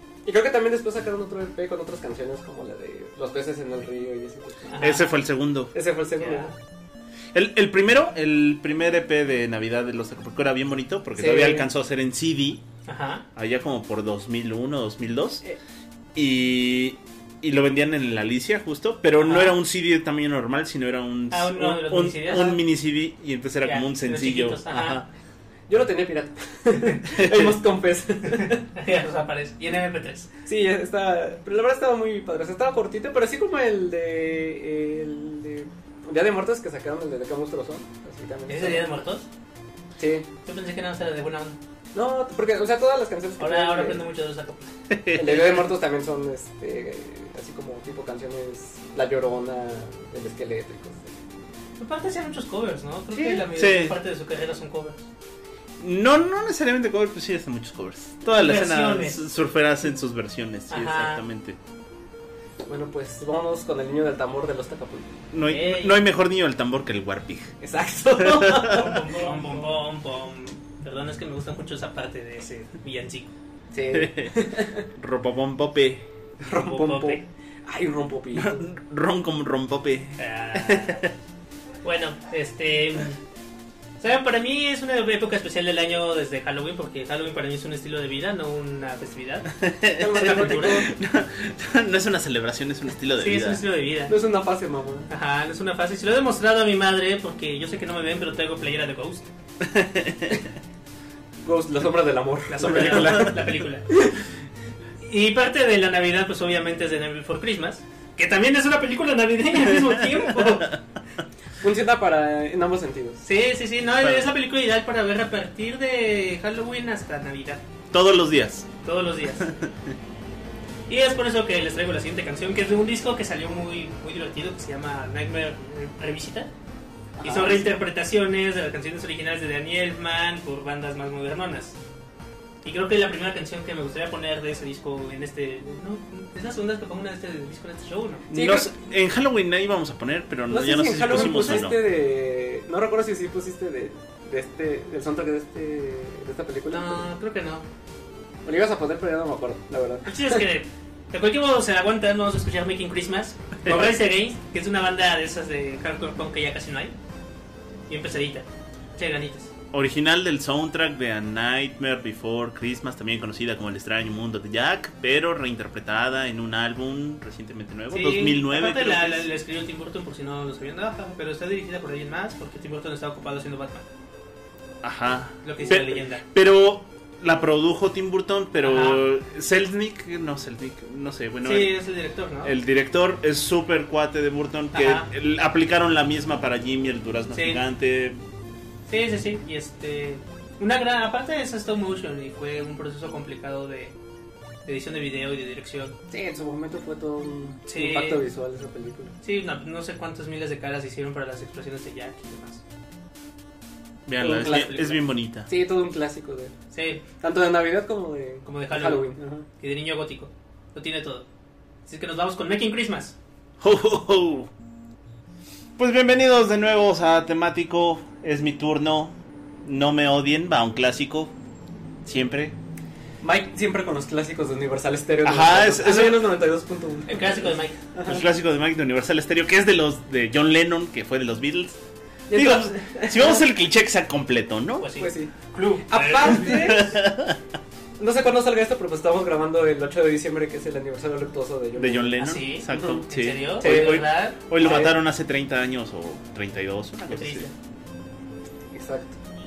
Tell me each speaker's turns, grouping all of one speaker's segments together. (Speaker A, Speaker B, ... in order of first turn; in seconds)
Speaker A: 0.3-4.8, 5.7-6.5, 11.2-11.7, 25.7-28.6, 30.4-38.9, 40.0-40.3, 41.9-44.0, 45.1-51.2, 53.1-53.5, 62.7-65.1, 67.6-69.7, 73.7-74.8, 76.4-78.7, 90.0-90.9, 94.1-95.1, 101.4-104.2, 111.6-113.2, 127.2-127.6, 138.3-138.7, 140.5-147.0, 148.4-150.4, 196.1-199.1, 204.2-206.5, 207.2-209.5, 223.2-228.2, 232.3-233.5, 235.0-235.3, 235.8-237.0, 238.0-243.0, 243.6-245.0, 248.7-249.2
Speaker B: 4.7-5.1, 6.2-6.5, 12.9-13.2, 19.2-19.6, 21.3-22.6, 23.6-25.0, 26.7-27.4, 28.2-30.3, 38.5-39.3, 40.5-41.6, 43.4-45.5, 51.8-55.0, 58.3-59.2, 60.7-61.2, 65.5-66.0, 68.7-73.3, 76.5-77.2, 80.2-81.1, 81.8-83.2, 84.0-89.5, 90.2-90.8, 93.2-94.1, 95.1-99.3, 102.5-103.9, 105.0-110.7, 113.2-117.6, 118.8-119.5, 120.9-126.5, 127.2-131.8, 132.6-138.3, 141.0-141.7, 146.7-147.7, 150.1-156.9, 157.9-159.5, 167.9-173.8, 175.4-176.2, 178.6-179.0, 181.4-182.6, 184.7-185.1, 187.3-187.6, 188.9-193.9, 194.7-195.9, 197.7-198.2, 199.2-202.6, 206.7-207.0, 208.4-211.3, 211.9-213.2, 227.1-227.8, 234.8-236.9, 242.2-244.4, 247.1-247.5
Speaker C: 4.8-5.7, 7.3-12.6, 13.3-15.4, 16.1-25.1, 44.9-45.5, 53.5-54.0, 55.8-61.6, 65.3-67.6, 68.2-69.0, 73.9-74.5, 75.0-76.0, 78.3-81.1, 89.6-93.6, 99.6-100.4, 109.7-110.8, 114.0-114.3, 117.9-118.7, 119.4-119.9, 138.3-141.8, 159.7-169.3, 174.8-181.7, 182.4-188.2, 204.1-205.5, 213.6-214.5, 215.8-221.3, 222.1-222.6, 225.2-226.3, 228.1-231.8, 232.3-234.9, 236.5-237.4, 241.8-247.5